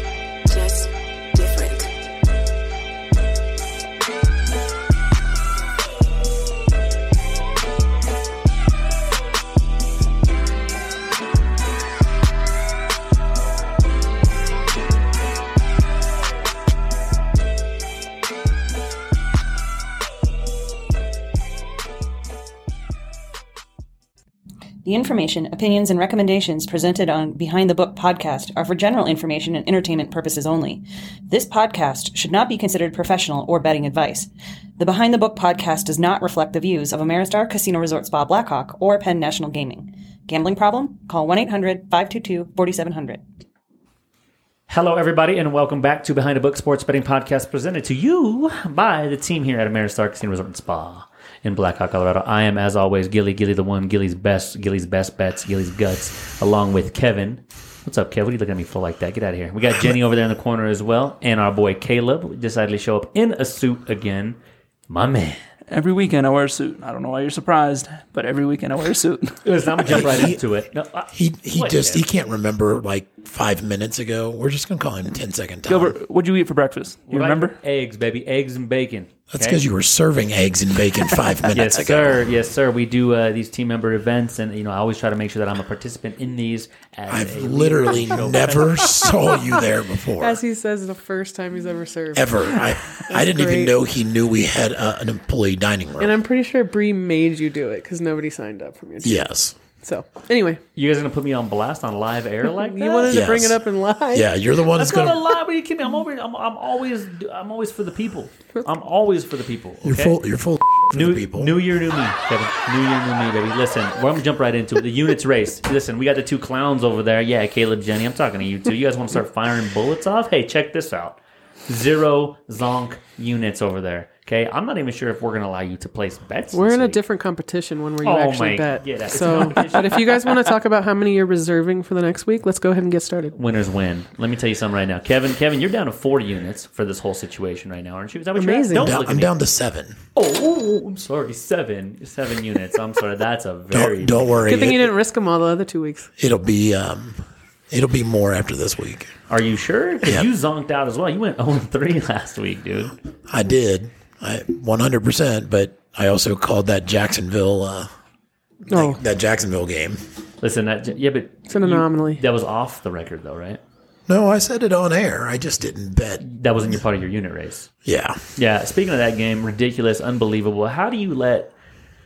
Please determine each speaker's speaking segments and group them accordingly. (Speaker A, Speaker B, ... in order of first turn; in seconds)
Speaker A: 0.5-0.8, 1.4-1.8, 24.8-43.2
Speaker B: 44.7-64.4, 64.9-65.4, 69.4-72.0, 77.1-79.6, 81.5-89.1, 100.7-103.3, 104.7-110.2, 110.9-127.0, 128.0-130.4, 133.3-139.3, 140.1-144.4, 149.3-152.9, 160.4-163.6, 166.2-167.7, 168.3-171.5
Speaker C: 65.7-70.3, 75.7-77.6
Speaker D: 69.8-70.4, 71.1-76.0, 79.3-82.2, 87.1-90.4, 92.1-96.2, 99.0-99.5, 103.1-103.6, 104.1-105.2, 109.8-111.5, 138.7-139.9, 143.7-144.9, 146.2-149.1, 153.3-157.9, 158.7-160.0, 164.1-166.2, 167.8-168.2
Speaker E: 90.2-93.7, 96.0-100.6, 102.5-104.3, 126.5-133.3, 138.3-138.9, 144.4-146.1, 158.7-159.0, 161.5-162.2